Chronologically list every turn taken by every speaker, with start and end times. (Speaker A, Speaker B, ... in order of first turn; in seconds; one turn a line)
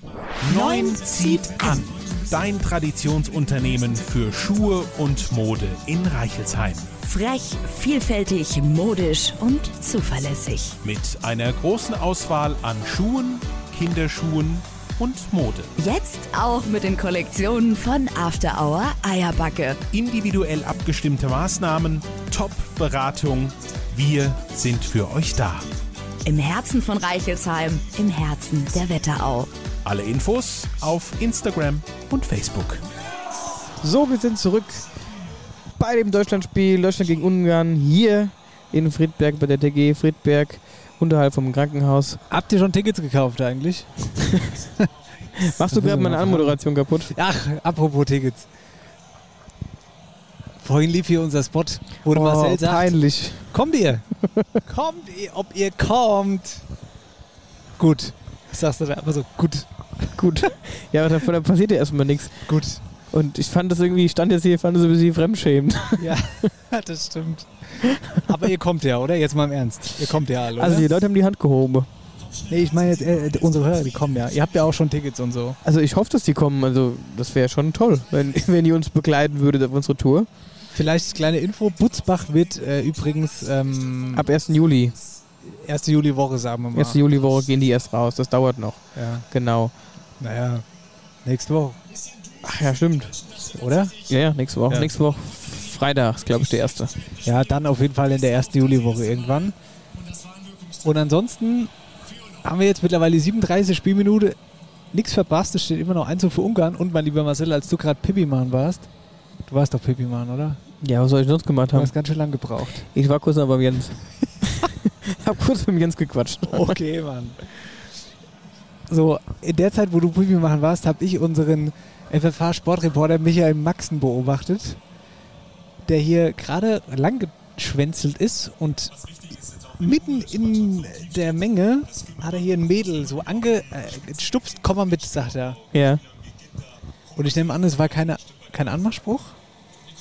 Speaker A: 0.4-6.9
Speaker B: 0.4-1.8
Speaker B: 7.0-10.8
Speaker A: 10.8-15.7
Speaker B: 15.8-19.8
Speaker A: 19.9-25.7
Speaker B: 26.2-29.5
Speaker A: 29.8-32.8
Speaker C: 33.8-34.9
Speaker C: 35.8-42.2
Speaker D: 42.3-44.1
Speaker C: 45.5-47.1
Speaker D: 45.7-46.6
Speaker D: 47.1-48.5
Speaker D: 50.6-52.9
Speaker C: 52.1-53.5
Speaker D: 53.5-54.0
Speaker D: 54.6-56.6
Speaker D: 57.8-60.2
Speaker C: 60.1-62.5
Speaker D: 62.5-62.8
Speaker C: 63.1-66.3
Speaker D: 66.0-70.9
Speaker C: 70.6-71.9
Speaker D: 72.5-75.6
Speaker C: 75.7-80.3
Speaker D: 80.7-84.2
Speaker C: 84.2-85.0
Speaker D: 85.4-87.0
Speaker C: 86.8-89.7
Speaker D: 89.0-89.2
Speaker D: 90.2-90.7
Speaker D: 91.2-91.8
Speaker C: 92.4-93.2
Speaker D: 93.5-93.9
Speaker C: 94.1-96.9
Speaker D: 97.2-99.5
Speaker D: 100.8-101.7
Speaker D: 102.4-104.4
Speaker D: 104.9-108.9
Speaker D: 109.5-110.6
Speaker C: 110.8-111.9
Speaker D: 111.7-112.8
Speaker C: 112.9-116.8
Speaker D: 116.5-117.4
Speaker D: 118.9-124.8
Speaker D: 125.9-128.9
Speaker D: 129.8-135.6
Speaker C: 135.7-136.0
Speaker D: 137.2-139.4